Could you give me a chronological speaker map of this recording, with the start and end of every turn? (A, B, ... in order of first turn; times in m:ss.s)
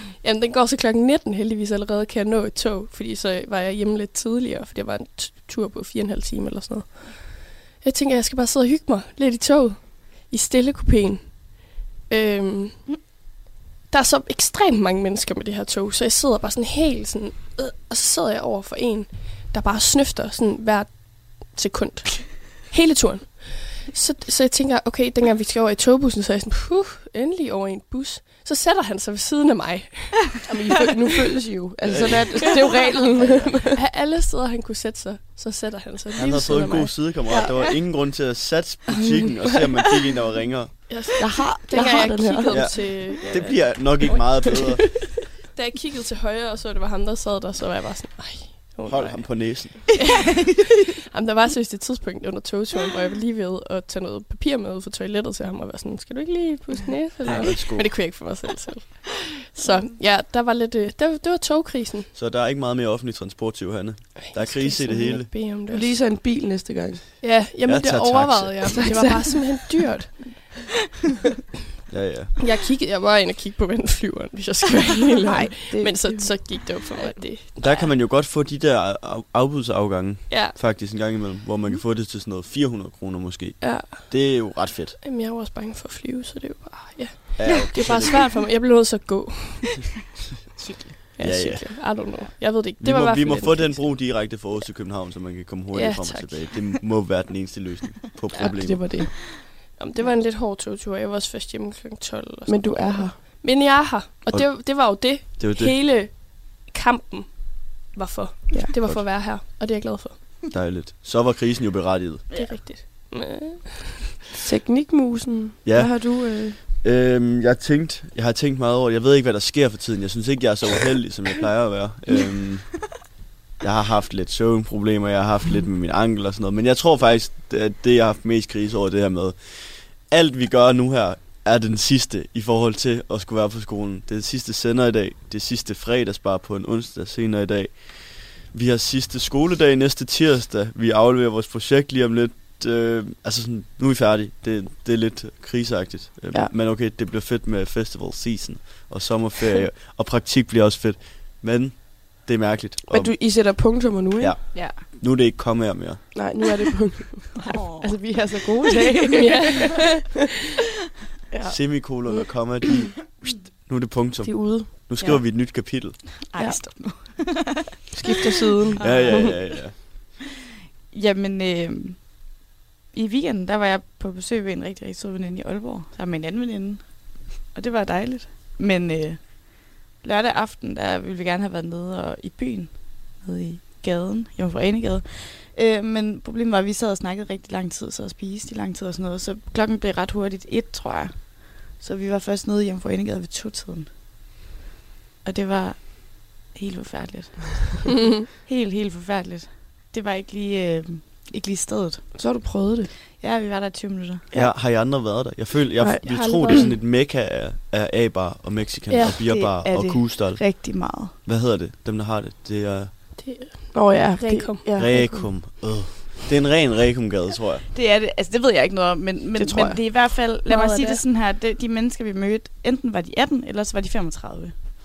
0:00.2-0:12.8 A
0:13.9-0:31.0 A
0:30.5-0:33.8 B
0:31.8-0:32.4 C
0:32.4-0:37.2 A
0:33.2-0:33.6 C
0:36.2-0:40.8 C
0:40.9-0:50.3 A
0:41.2-0:43.2 B
0:42.5-0:44.9 C
0:48.9-0:49.8 C
0:49.9-0:50.5 D
0:51.1-1:02.1 A
0:57.2-0:58.1 C
1:02.1-1:05.3 C
1:04.1-1:06.0 A
1:05.6-1:07.1 B
1:07.2-1:10.4 A
1:07.6-1:08.9 C
1:08.7-1:09.3 B
1:11.9-1:12.3 C
1:12.4-1:17.9 A
1:15.3-1:17.1 B
1:17.6-1:25.0 C
1:20.3-1:20.6 A
1:23.6-1:24.1 A
1:25.0-1:29.9 A
1:27.4-1:28.3 C
1:31.0-1:33.9 A
1:31.2-1:31.8 C
1:32.8-1:38.9 C
1:35.7-1:36.8 A
1:38.3-1:50.4 A
1:38.4-1:39.2 B
1:42.5-1:43.3 B
1:45.4-1:45.7 C
1:48.5-1:48.8 B
1:48.8-1:49.0 C
1:50.5-1:52.3 C
1:52.3-1:52.6 D
1:52.3-1:54.4 A
1:54.4-1:56.6 B
1:55.6-2:02.8 C
2:03.6-2:33.2 C
2:32.9-2:34.4 B
2:34.2-2:36.1 C
2:34.5-2:34.9 D
2:36.1-2:39.6 B
2:37.4-2:38.2 D
2:39.1-2:40.0 A
2:41.3-2:42.2 B
2:41.4-2:46.0 C
2:44.2-2:44.9 B
2:46.0-2:49.6 D
2:46.4-2:46.9 B
2:47.9-2:49.2 B
2:48.8-2:49.8 C
2:50.9-2:52.3 D
2:52.9-3:13.9 D
3:15.2-3:17.7 D
3:17.9-3:18.2 A
3:18.4-3:22.1 D
3:22.1-3:22.9 B
3:23.1-3:24.3 D
3:24.3-3:33.0 C
3:25.8-3:26.7 B
3:26.1-3:26.7 A
3:28.9-3:29.2 A
3:29.2-3:31.2 D
3:33.1-3:34.8 A
3:33.7-3:35.3 B
3:34.7-3:37.6 C
3:37.7-3:44.5 D
3:39.4-3:40.2 B
3:40.4-3:41.0 A